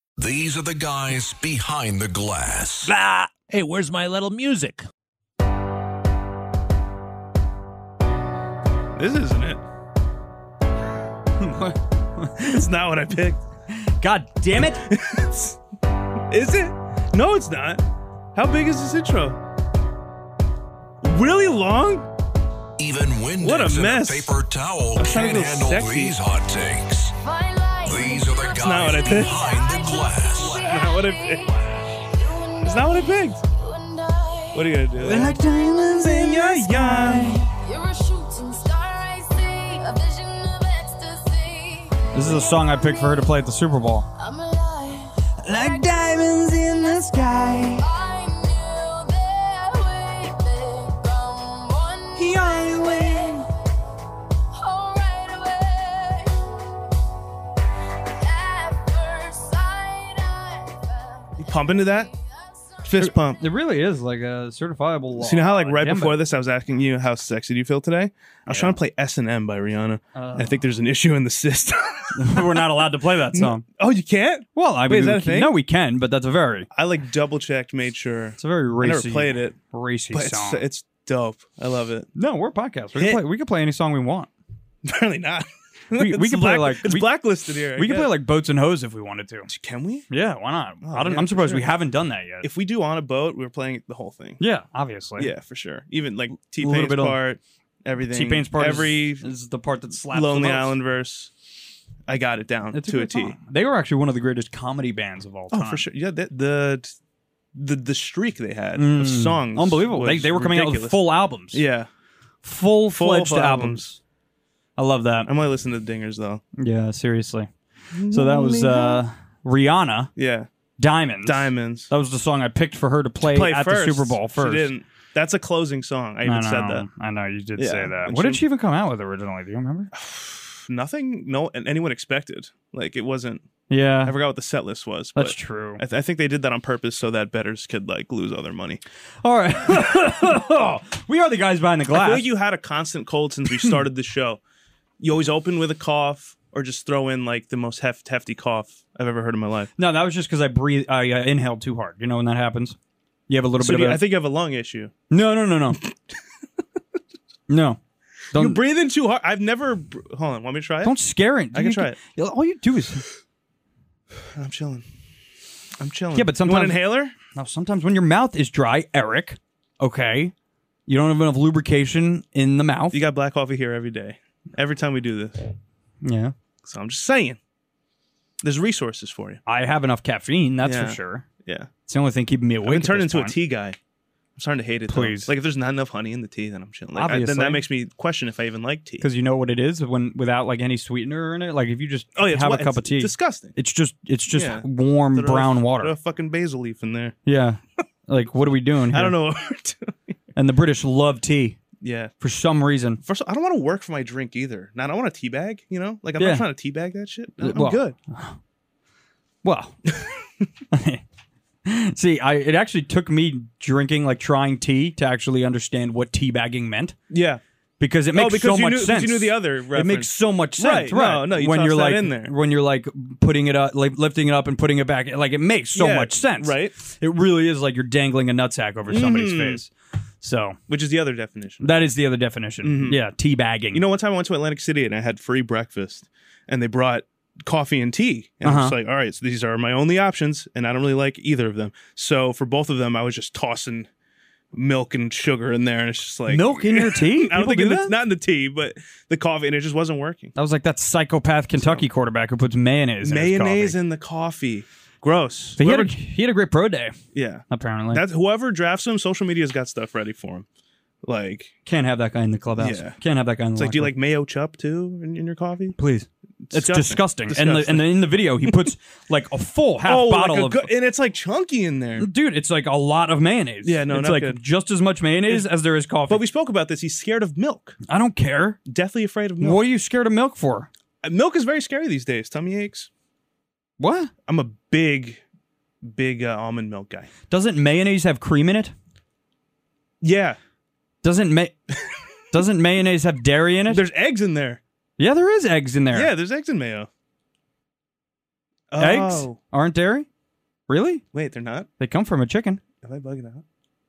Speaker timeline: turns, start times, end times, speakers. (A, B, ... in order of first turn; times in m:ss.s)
0:00.2-0:02.9 A
0:02.8-0:04.9 B
0:08.9-0:09.6 C
0:11.4-0:12.6 D
0:12.4-0:13.4 C
0:13.7-0:14.8 D
0:14.6-0:15.6 C
0:16.3-0:17.8 C
0:18.3-0:19.4 C
0:21.0-0:22.1 C
0:22.8-0:27.2 A
0:23.4-0:24.4 C
0:25.0-0:26.2 C
0:27.2-0:36.1 E
0:27.8-0:30.6 A
0:28.5-0:29.4 C
0:30.6-0:31.6 C
0:32.6-0:33.4 C
0:34.5-0:35.4 C
0:35.0-0:37.5 D
0:36.0-0:37.4 C
0:37.6-0:43.3 E
0:42.1-0:44.1 D
0:44.2-0:47.0 E
0:45.4-0:47.8 D
0:47.8-0:53.5 E
0:52.2-0:53.4 D
0:54.5-0:56.5 E
0:58.1-1:02.9 E
1:01.4-1:02.1 C
1:02.8-1:03.4 C
1:03.0-1:06.2 D
1:05.2-1:15.5 C
1:08.5-1:08.8 D
1:10.1-1:10.6 D
1:12.1-1:13.6 D
1:14.5-1:16.7 D
1:16.7-1:19.6 C
1:18.4-1:20.6 D
1:20.1-1:22.1 C
1:22.2-1:24.3 D
1:23.0-1:23.2 C
1:24.8-1:28.1 C
1:25.9-1:27.1 D
1:27.8-1:29.5 D
1:29.5-1:30.1 C
1:30.1-1:32.5 D
1:30.8-1:31.7 C
1:32.4-1:34.4 C
1:34.4-1:35.3 D
1:35.2-1:39.3 C
1:36.6-1:37.2 D
1:38.1-1:40.7 D
1:40.1-1:41.3 C
1:42.1-1:43.4 C
1:42.7-1:45.8 D
1:45.5-1:46.9 C
1:47.5-1:51.9 C
1:48.8-1:51.6 D
1:52.4-1:54.0 D
1:52.9-1:53.9 C
1:54.8-1:55.3 D
1:55.2-1:56.4 C
1:56.6-1:57.5 D
1:57.9-1:59.0 C
1:58.1-2:00.1 D
2:00.2-2:00.5 C
2:00.8-2:04.7 D
2:01.2-2:01.9 C
2:03.2-2:06.8 C
2:06.2-2:09.9 D
2:07.6-2:08.4 C
2:09.9-2:13.4 C
2:13.7-2:14.1 D
2:14.0-2:18.8 C
2:15.2-2:15.8 D
2:19.2-2:22.3 D
2:21.9-2:24.4 C
2:23.5-2:23.8 D
2:25.0-2:29.7 C
2:29.8-2:32.8 D
2:33.3-2:34.0 D
2:33.6-2:34.9 C
2:35.1-2:35.8 D
2:37.5-2:37.8 D
2:38.3-2:38.6 D
2:38.3-2:41.0 C
2:40.8-2:43.0 D
2:41.5-2:42.0 C
2:44.3-2:44.8 C
2:45.8-2:47.1 C
2:46.1-2:50.3 D
2:50.9-2:53.0 D
2:52.9-2:55.4 C
2:56.0-2:56.3 D
2:56.6-2:57.4 C
2:58.4-2:59.4 C
2:59.5-3:01.2 D
3:00.6-3:01.7 C
3:01.9-3:03.3 D
3:02.6-3:03.8 C
3:04.4-3:09.1 C
3:04.9-3:05.3 D
3:06.9-3:07.6 D
3:09.0-3:15.9 D
3:12.2-3:13.6 C
3:14.3-3:17.2 C
3:17.2-3:19.1 D
3:18.9-3:20.0 C
3:20.4-3:21.6 D
3:21.8-3:22.1 C
3:22.2-3:23.0 D
3:23.0-3:28.0 C
3:26.2-3:26.4 D
3:27.4-3:28.4 D
3:29.4-3:29.8 D
3:30.7-3:31.0 D
3:31.6-3:37.0 D
3:37.1-3:37.4 C
3:37.8-3:49.7 D
3:38.1-3:42.3 C
3:45.7-3:46.7 C
3:48.9-3:49.6 C
3:50.2-3:50.6 D
3:50.7-3:51.7 C
3:51.6-3:53.8 D
3:52.6-3:53.0 C
3:53.7-4:03.9 C
3:58.4-3:58.8 D
4:04.5-4:10.3 C
4:06.3-4:08.0 D
4:10.4-4:13.8 D
4:11.6-4:11.8 C
4:13.0-4:16.0 C
4:15.6-4:17.0 D
4:17.1-4:20.4 C
4:17.5-4:18.0 D
4:21.0-4:21.5 C
4:21.6-4:23.9 D
4:22.6-4:23.0 C
4:23.6-4:25.8 C
4:25.8-4:30.7 D
4:26.5-4:28.6 C
4:29.8-4:32.1 C
4:32.0-4:36.2 D
4:33.6-4:34.4 C
4:36.1-4:37.8 C
4:37.9-4:38.6 D
4:38.7-4:39.6 C
4:39.4-4:40.7 D
4:41.0-4:42.9 C
4:43.8-4:44.1 D
4:44.3-4:45.2 C
4:45.8-4:47.1 C
4:47.3-4:48.7 D
4:50.0-4:50.4 C
4:51.0-4:51.6 D
4:52.3-4:53.8 D
4:53.7-4:54.6 C
4:55.0-4:56.1 D
4:55.9-4:56.9 C
4:58.7-4:59.4 C
4:58.8-5:00.1 D
5:00.7-5:01.0 D
5:01.1-5:01.7 C
5:01.8-5:02.6 D
5:02.8-5:03.4 C